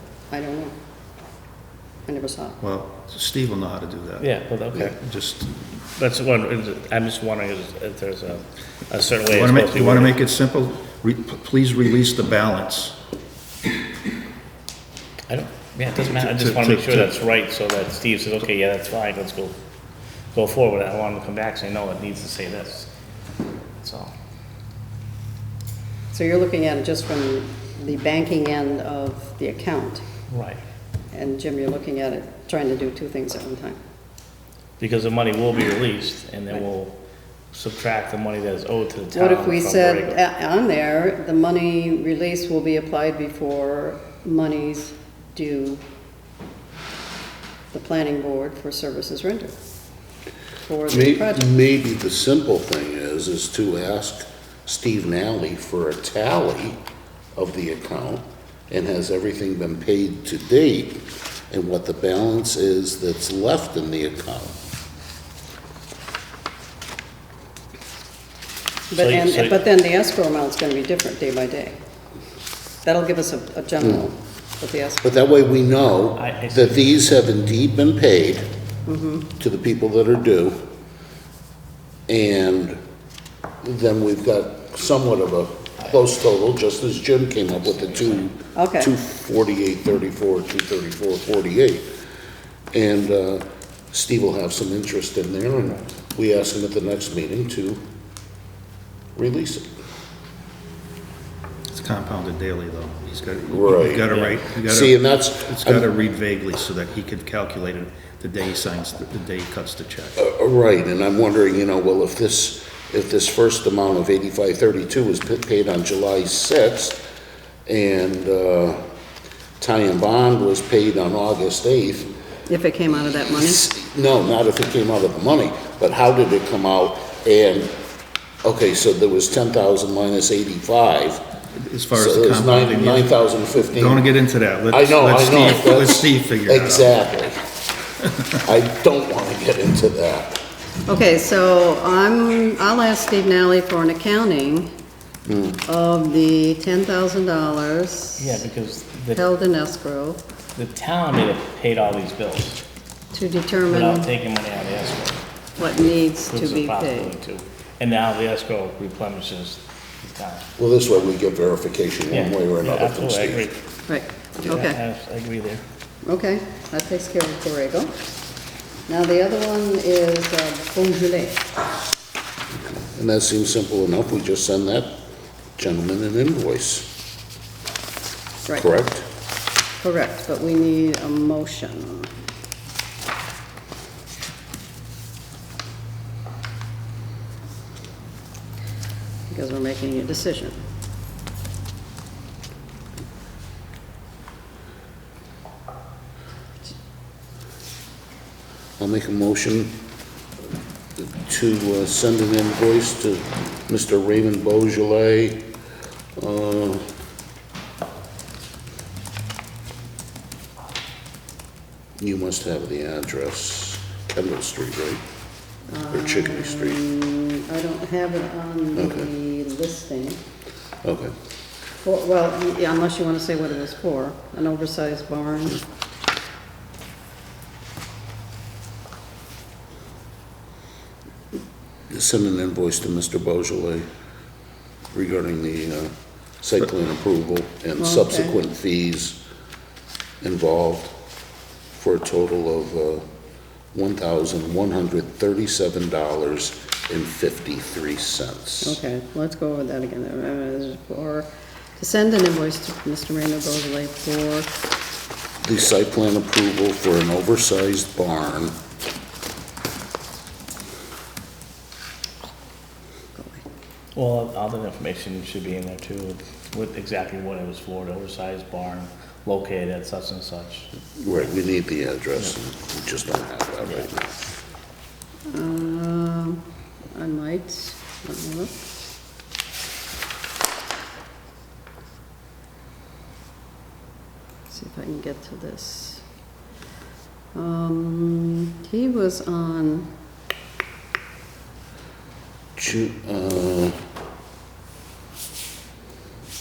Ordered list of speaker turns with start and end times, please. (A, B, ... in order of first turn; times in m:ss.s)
0:00.3-0:00.7 A
0:02.0-0:02.6 A
0:02.6-0:04.3 B
0:04.2-0:05.0 C
0:05.0-0:05.5 B
0:06.0-0:10.2 C
0:09.3-0:13.0 B
0:15.3-0:19.6 C
0:16.1-0:17.1 B
0:20.3-0:22.9 C
0:23.8-0:24.1 C
0:26.1-0:30.0 A
0:30.3-0:30.6 C
0:31.1-0:33.8 A
0:34.8-0:37.0 C
0:37.5-0:40.2 C
0:39.1-0:45.8 A
0:47.7-0:49.5 A
0:50.6-0:51.4 A
0:50.9-0:56.8 D
0:57.3-1:04.6 D
1:08.9-1:11.8 A
1:09.0-1:09.6 C
1:12.8-1:15.0 A
1:13.8-1:14.1 D
1:15.0-1:18.5 D
1:16.2-1:16.9 C
1:18.8-1:19.3 A
1:19.4-1:20.6 D
1:22.1-1:22.8 D
1:23.6-1:31.8 D
1:27.6-1:28.3 C
1:28.5-1:28.9 A
1:32.7-1:37.8 D
1:39.2-1:39.6 D
1:41.7-1:50.2 B
1:43.5-1:44.1 D
1:44.6-1:45.9 D
1:50.2-1:57.0 D
1:57.7-1:58.8 D
1:59.6-2:02.1 D
2:02.5-2:03.7 A
2:03.3-2:07.7 D
2:08.4-2:11.2 D
2:11.6-2:13.1 B
2:11.9-2:14.1 D
2:13.7-2:17.0 B
2:14.7-2:17.4 D
2:18.4-2:20.4 D
2:20.8-2:24.7 A
2:25.2-2:25.6 D
2:25.7-2:28.4 A
2:28.2-2:29.2 C
2:29.1-2:30.2 A
2:30.5-2:32.6 C
2:33.1-2:34.1 A
2:33.7-2:35.2 C
2:35.6-2:37.1 A
2:36.3-2:40.5 C
2:40.6-2:43.5 D
2:42.1-2:43.6 C
2:43.9-2:44.8 A
2:44.4-2:45.6 C
2:46.0-2:47.9 A
2:48.9-2:51.4 A
2:52.9-2:54.9 D
2:55.6-2:56.9 D
2:58.5-2:59.0 D
2:59.8-3:02.1 A
3:09.3-3:10.6 A
3:18.8-3:19.8 D
3:21.0-3:25.4 D
3:26.2-3:26.8 D
3:32.0-3:35.0 D
3:35.7-3:40.2 A
3:35.9-3:36.8 D
3:38.8-3:39.1 D
3:40.8-3:41.1 D
3:41.8-3:45.6 A
3:51.9-3:53.8 D
3:54.9-3:59.2 D
3:57.8-3:58.3 A
4:00.2-4:00.9 D
4:01.7-4:03.0 D
4:03.7-4:08.8 D
4:08.6-4:14.5 A
4:15.4-4:18.5 D
4:23.2-4:23.4 A
4:23.9-4:30.7 C
4:31.0-4:34.1 D
4:35.3-4:36.4 A
4:36.9-4:38.6 A
4:44.5-4:46.0 A
4:47.3-4:49.9 A
4:52.6-4:53.8 D